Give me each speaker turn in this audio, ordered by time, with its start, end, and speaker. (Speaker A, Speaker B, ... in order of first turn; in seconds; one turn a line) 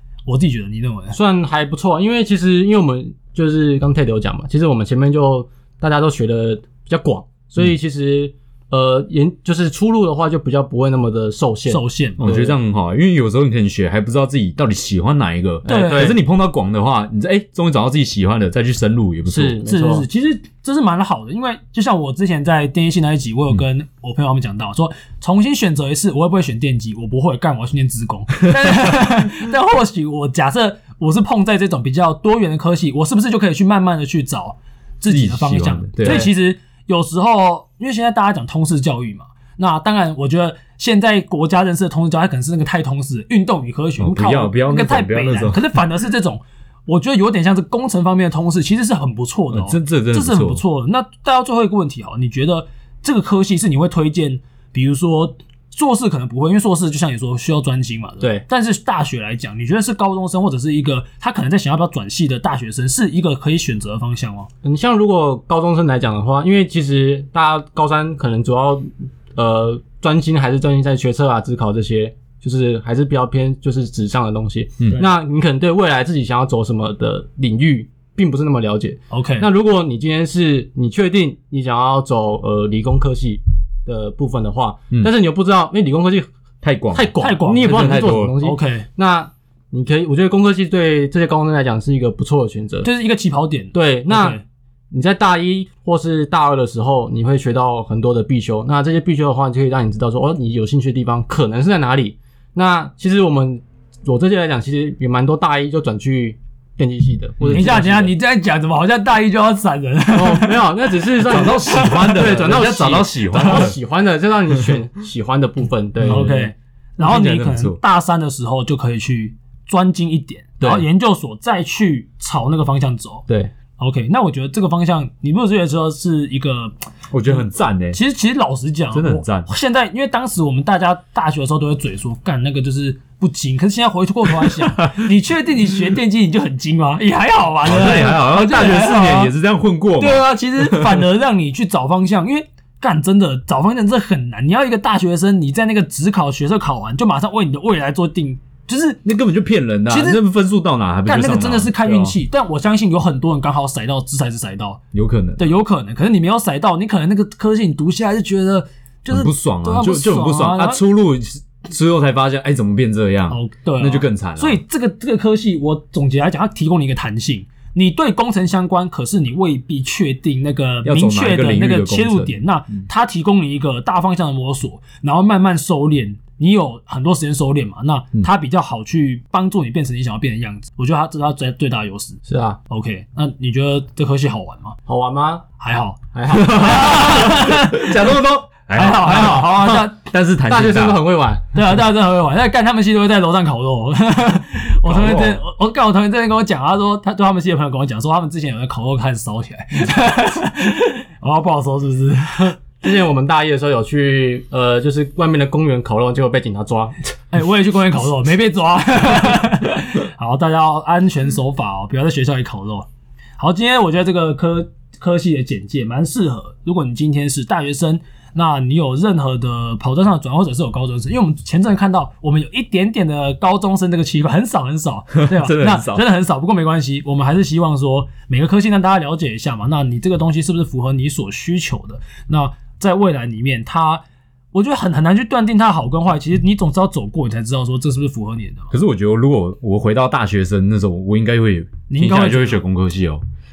Speaker A: 0.2-1.2
Speaker B: 1.1-12.6
Speaker A: 11.7-12.2
Speaker C: 12.2-19.6
Speaker B: 15.6-16.2
Speaker A: 15.7-16.1
Speaker B: 19.3-20.1
Speaker A: 19.6-64.5
Speaker C: 35.1-36.3
Speaker C: 44.0-45.6
Speaker C: 49.5-50.6
Speaker B: 64.6-86.3
Speaker A: 79.1-79.5
Speaker C: 86.6-88.3
Speaker B: 86.9-92.9
Speaker A: 87.2-88.9
Speaker A: 92.8-94.4
Speaker B: 93.7-94.4
Speaker B: 94.9-108.2
Speaker C: 107.4-107.7
Speaker A: 107.5-112.2
Speaker B: 110.1-116.5
Speaker C: 111.3-113.7
Speaker C: 116.0-116.3
Speaker A: 116.0-123.2
Speaker C: 117.0-117.8
Speaker B: 120.6-120.8
Speaker A: 123.8-126.7
Speaker C: 127.1-128.0
Speaker A: 127.2-139.3
Speaker C: 128.9-129.5
Speaker C: 134.4-134.9
Speaker C: 137.7-141.1
Speaker A: 140.0-149.0
Speaker C: 149.0-152.2
Speaker A: 149.9-150.2
Speaker A: 151.1-154.8
Speaker C: 154.9-155.5
Speaker A: 155.4-160.8
Speaker C: 159.1-164.6
Speaker A: 163.3-184.8
Speaker C: 170.8-172.8
Speaker B: 182.3-182.6
Speaker B: 184.9-185.4
Speaker A: 185.6-188.2
Speaker B: 186.1-186.7
Speaker C: 186.5-191.0
Speaker A: 188.7-189.9
Speaker B: 188.9-189.9
Speaker B: 190.5-191.4
Speaker A: 191.5-202.6
Speaker C: 194.8-195.4
Speaker B: 202.4-207.0
Speaker A: 207.3-238.7
Speaker C: 225.2-226.1
Speaker C: 238.7-243.2
Speaker A: 241.9-242.6